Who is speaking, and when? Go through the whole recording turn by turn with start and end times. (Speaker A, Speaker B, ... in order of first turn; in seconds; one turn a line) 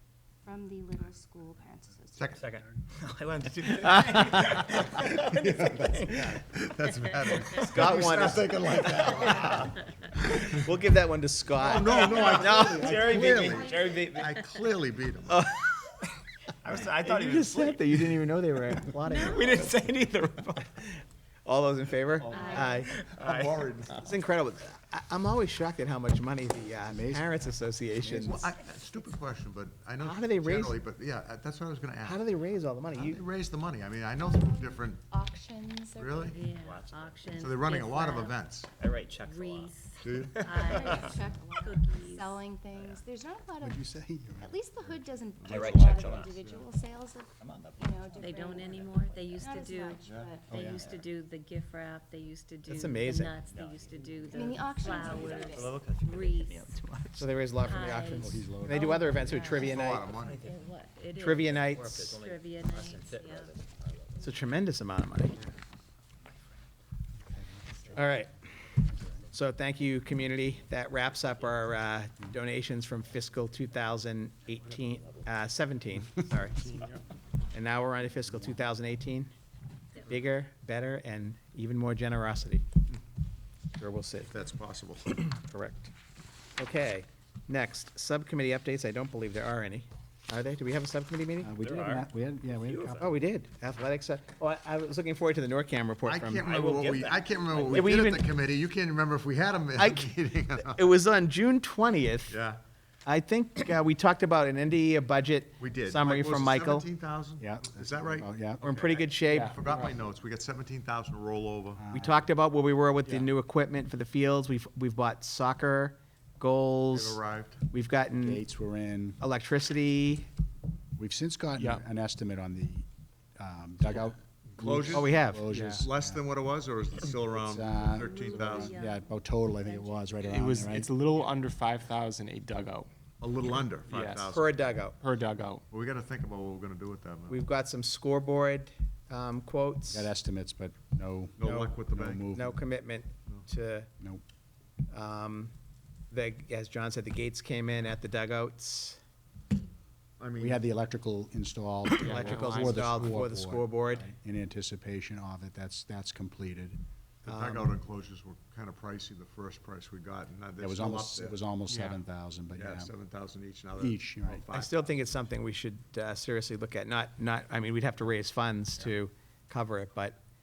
Speaker A: 0.4-2.5
Speaker B: 2.1-2.6
Speaker C: 2.3-5.5
Speaker D: 3.7-4.8
Speaker B: 4.4-10.5
Speaker D: 7.6-9.5
Speaker D: 10.5-13.6
Speaker B: 11.6-15.5
Speaker C: 11.8-14.4
Speaker D: 15.3-16.0
Speaker C: 16.6-17.9
Speaker D: 16.7-22.9
Speaker E: 19.1-19.7
Speaker C: 22.2-23.9
Speaker E: 22.3-22.9
Speaker B: 23.1-24.0
Speaker D: 24.0-28.5
Speaker F: 26.8-27.5
Speaker F: 28.0-28.5
Speaker B: 28.2-32.2
Speaker D: 30.0-30.8
Speaker D: 32.0-33.2
Speaker B: 32.9-35.1
Speaker A: 34.2-36.4
Speaker B: 35.9-36.4
Speaker E: 36.3-38.4
Speaker C: 36.4-37.4
Speaker B: 37.3-38.7
Speaker C: 38.8-41.3
Speaker E: 39.2-42.4
Speaker B: 40.0-41.0
Speaker A: 40.7-50.6
Speaker C: 42.7-43.0
Speaker F: 43.6-44.5
Speaker B: 44.8-46.6
Speaker C: 45.5-46.4
Speaker C: 47.4-49.5
Speaker E: 48.2-56.8
Speaker B: 50.0-51.0
Speaker C: 50.5-51.0
Speaker D: 52.7-53.3
Speaker C: 53.5-57.1
Speaker A: 54.3-55.8
Speaker D: 57.1-60.1
Speaker E: 57.6-63.6
Speaker F: 58.1-59.3
Speaker B: 59.5-60.4
Speaker C: 59.8-60.7
Speaker D: 61.1-62.1
Speaker C: 61.6-64.4
Speaker D: 64.2-65.4
Speaker F: 67.2-68.0
Speaker D: 67.9-68.5
Speaker D: 69.3-76.8
Speaker C: 74.7-75.3
Speaker G: 76.5-77.0
Speaker D: 77.5-79.3
Speaker F: 78.3-78.6
Speaker D: 80.0-82.6
Speaker D: 83.8-84.3
Speaker B: 84.3-85.2
Speaker D: 85.2-85.9
Speaker D: 86.6-91.5
Speaker F: 91.4-93.1
Speaker C: 91.6-92.1
Speaker C: 92.6-93.0
Speaker D: 93.0-97.0
Speaker B: 96.0-100.8
Speaker C: 96.5-97.8
Speaker D: 97.5-98.2
Speaker D: 99.8-102.4
Speaker B: 102.3-102.6
Speaker D: 103.0-106.8
Speaker B: 105.6-111.8
Speaker F: 107.4-108.6
Speaker D: 108.6-109.6
Speaker G: 109.3-109.9
Speaker F: 111.8-112.3
Speaker D: 111.9-118.4
Speaker B: 116.9-117.6
Speaker F: 118.2-119.2
Speaker D: 119.2-120.3
Speaker F: 121.0-122.8
Speaker G: 121.6-121.8
Speaker F: 123.4-126.2
Speaker B: 124.6-125.1
Speaker D: 124.9-125.4
Speaker G: 125.5-125.9
Speaker B: 125.7-128.8
Speaker F: 127.2-130.9
Speaker E: 127.9-130.2
Speaker G: 130.2-132.9
Speaker B: 133.2-134.6
Speaker G: 133.8-134.3
Speaker D: 134.3-135.0
Speaker G: 135.0-135.6
Speaker B: 135.7-137.4
Speaker D: 137.3-140.1
Speaker F: 139.9-142.6
Speaker B: 141.4-142.3
Speaker D: 141.4-141.7
Speaker D: 142.3-143.9
Speaker D: 144.9-145.5
Speaker D: 146.1-149.0
Speaker B: 150.2-150.6
Speaker F: 150.4-156.8
Speaker G: 152.0-152.9
Speaker D: 152.0-154.1
Speaker B: 157.2-161.4
Speaker D: 157.2-157.7
Speaker F: 160.6-162.9
Speaker G: 161.7-162.0
Speaker B: 162.5-165.1
Speaker F: 163.8-164.4
Speaker D: 164.5-170.2